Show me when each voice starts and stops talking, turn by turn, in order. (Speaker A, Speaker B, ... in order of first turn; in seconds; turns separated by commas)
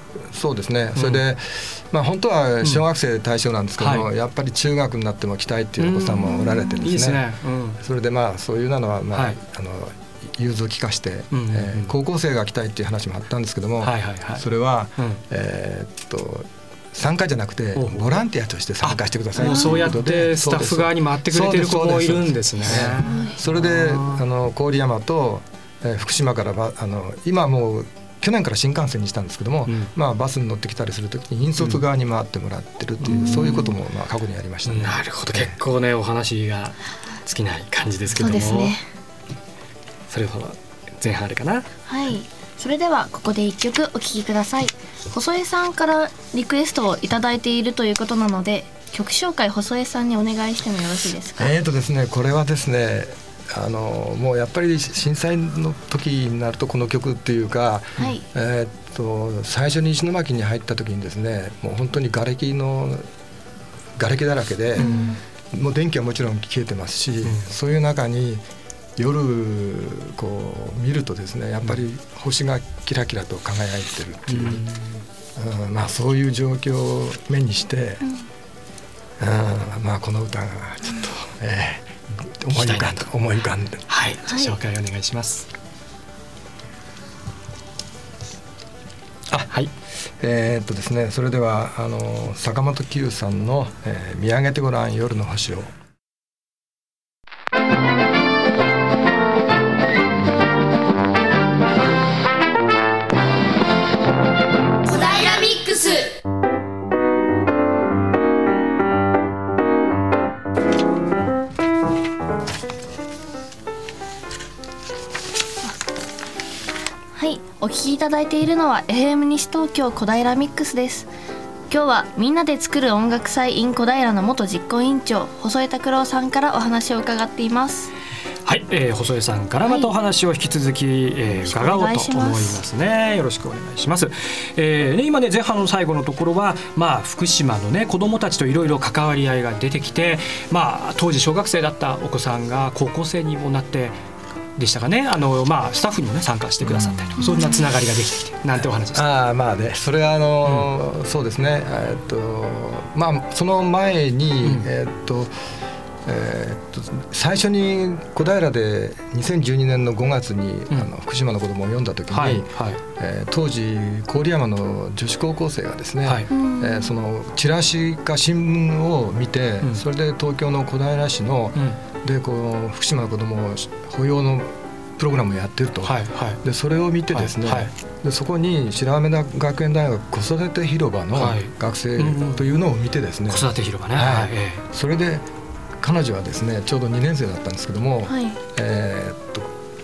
Speaker A: 0.2-7.2, Speaker B: 0.9-1.2, Speaker B: 3.8-4.1, Speaker B: 5.8-7.8, Speaker A: 7.8-35.6, Speaker B: 9.1-9.4, Speaker B: 11.3-11.9, Speaker B: 13.8-14.4, Speaker B: 17.7-18.2, Speaker B: 18.8-24.2, Speaker C: 19.4-19.9, Speaker C: 23.0-23.3, Speaker B: 29.6-29.9, Speaker B: 33.0-33.7, Speaker C: 33.1-33.6, Speaker B: 34.6-38.8, Speaker C: 38.2-38.8, Speaker B: 40.1-41.6, Speaker C: 41.9-51.5, Speaker A: 51.4-63.0, Speaker C: 58.0-58.2, Speaker A: 64.0-64.9, Speaker C: 64.8-65.2, Speaker B: 64.8-65.2, Speaker A: 65.5-68.4, Speaker B: 67.2-67.5, Speaker A: 69.0-74.7, Speaker B: 74.3-75.0, Speaker A: 75.3-78.0, Speaker A: 79.2-83.8, Speaker B: 82.5-83.1, Speaker B: 83.9-85.5, Speaker C: 84.3-84.5, Speaker A: 90.2-95.7, Speaker C: 104.8-106.0, Speaker C: 117.1-121.1, Speaker C: 121.7-127.9, Speaker B: 128.4-144.0, Speaker C: 129.6-129.9, Speaker C: 131.4-132.6, Speaker B: 144.6-149.1, Speaker A: 146.6-147.2, Speaker C: 147.2-147.6, Speaker A: 148.6-155.3, Speaker B: 154.4-154.7, Speaker A: 156.0-185.2, Speaker B: 162.1-162.8, Speaker B: 166.0-166.3, Speaker C: 166.3-166.9, Speaker B: 175.8-176.4, Speaker B: 177.1-177.7, Speaker B: 181.1-182.5, Speaker B: 183.3-184.6, Speaker A: 185.8-189.5, Speaker C: 188.1-188.4